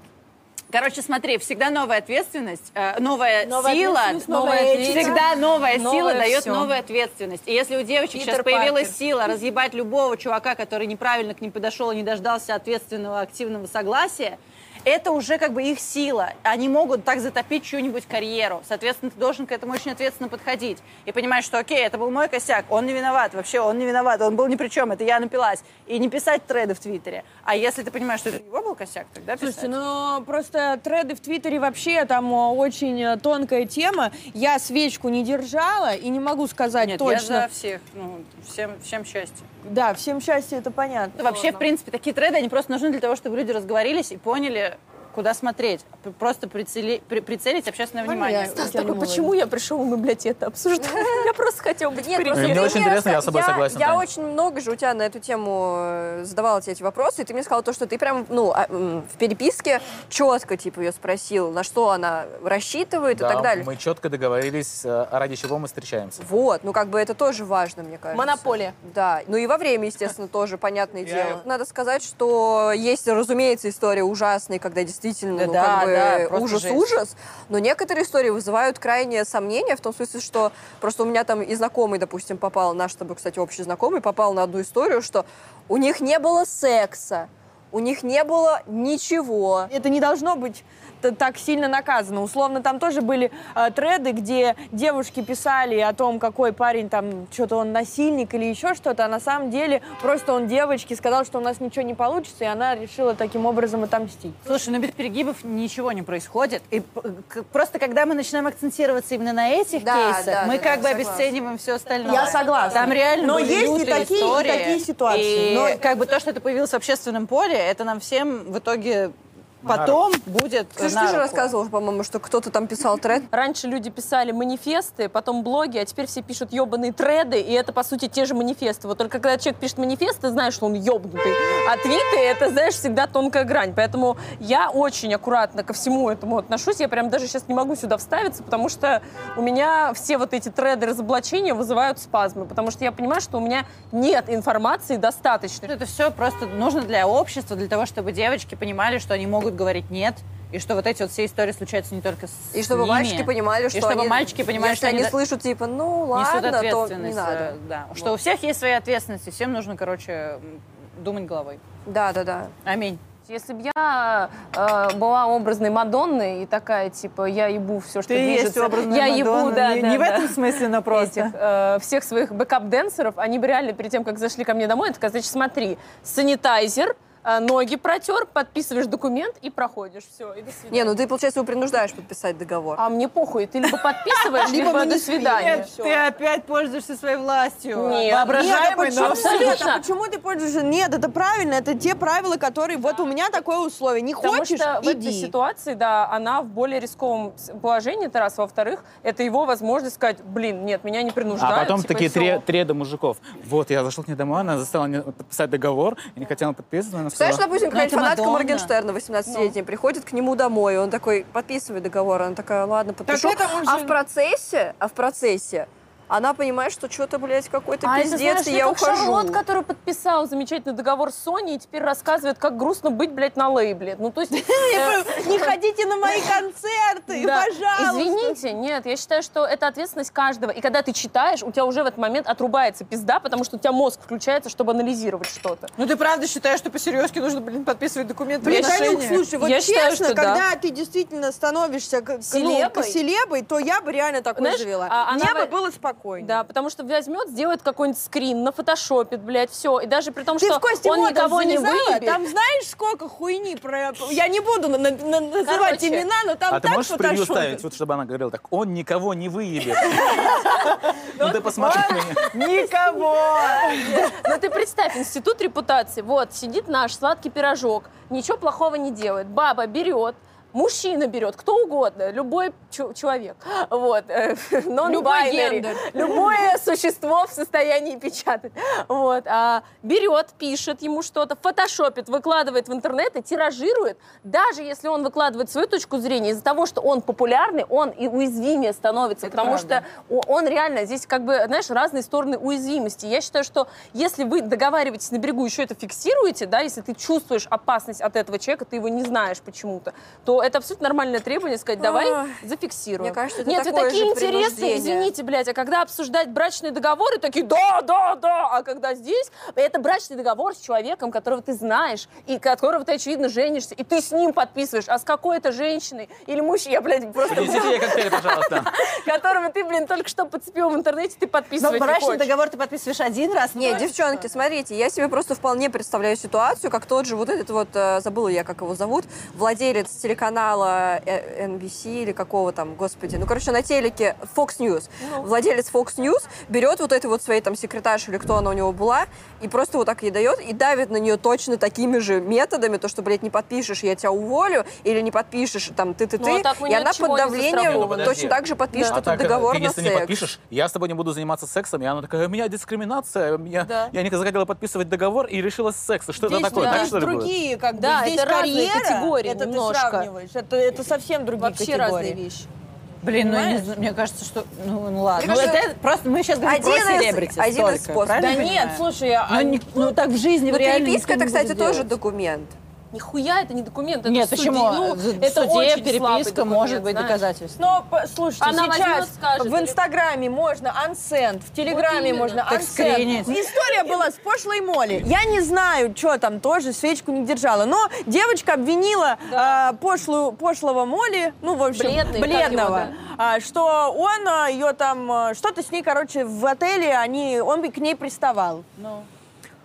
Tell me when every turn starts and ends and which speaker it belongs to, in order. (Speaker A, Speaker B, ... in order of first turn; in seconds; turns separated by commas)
Speaker A: 0.7-29.7, Speaker B: 3.4-5.2, Speaker C: 4.3-6.7, Speaker C: 8.1-8.9, Speaker B: 29.4-37.5, Speaker A: 36.8-39.4, Speaker B: 39.6-41.5, Speaker A: 41.2-48.7, Speaker B: 48.0-49.3, Speaker C: 48.5-53.0, Speaker D: 50.8-51.2, Speaker D: 51.9-63.7, Speaker E: 52.3-54.0, Speaker E: 63.1-66.2, Speaker D: 66.2-89.7, Speaker C: 68.1-68.8, Speaker E: 71.1-71.4, Speaker A: 75.4-77.0, Speaker B: 89.7-104.4, Speaker A: 104.5-121.5, Speaker D: 109.8-111.3, Speaker B: 112.0-115.8, Speaker E: 119.7-120.0, Speaker D: 120.8-123.3, Speaker C: 123.3-145.7, Speaker A: 145.7-155.2, Speaker D: 152.5-158.1, Speaker A: 156.1-161.6, Speaker D: 161.9-162.5, Speaker A: 162.7-163.0, Speaker C: 163.3-180.9, Speaker A: 168.1-171.3, Speaker D: 180.7-182.8, Speaker C: 182.8-185.7, Speaker A: 184.1-184.4, Speaker B: 184.4-186.1, Speaker A: 185.3-189.7, Speaker C: 187.7-189.9, Speaker B: 188.3-195.3, Speaker C: 194.2-202.4, Speaker E: 201.3-207.4, Speaker D: 207.1-219.4, Speaker A: 207.6-208.7, Speaker C: 209.3-209.5, Speaker B: 213.1-214.0, Speaker C: 217.8-225.5, Speaker B: 224.3-228.4, Speaker C: 226.1-226.3, Speaker C: 227.1-235.7, Speaker A: 235.8-239.3, Speaker B: 238.4-246.4, Speaker C: 238.4-240.4, Speaker C: 242.3-243.0, Speaker C: 244.3-245.5, Speaker C: 246.2-252.2, Speaker B: 250.4-257.7, Speaker C: 255.4-256.1, Speaker E: 256.5-260.2, Speaker B: 260.1-260.3, Speaker A: 260.2-260.8, Speaker E: 261.1-262.3, Speaker B: 261.1-264.1, Speaker A: 261.6-264.2, Speaker C: 264.2-322.3, Speaker B: 274.8-276.3, Speaker A: 289.2-289.8, Speaker D: 301.8-302.4, Speaker D: 303.0-305.1, Speaker E: 317.3-318.7, Speaker A: 321.6-323.9, Speaker D: 323.5-350.3, Speaker C: 335.0-335.3, Speaker C: 346.2-349.0, Speaker E: 347.5-357.4, Speaker B: 356.2-362.2, Speaker C: 356.5-356.9, Speaker C: 357.8-360.1, Speaker C: 361.4-362.5, Speaker A: 363.0-371.8, Speaker B: 363.1-363.7, Speaker D: 365.2-365.7, Speaker D: 366.4-368.4, Speaker B: 368.2-370.0, Speaker D: 370.5-372.6, Speaker C: 372.9-377.2, Speaker A: 374.1-377.6, Speaker B: 377.6-398.7, Speaker C: 378.4-379.8, Speaker C: 381.7-382.7, Speaker A: 382.5-383.4, Speaker C: 389.3-389.6, Speaker C: 391.7-392.9, Speaker A: 398.8-399.1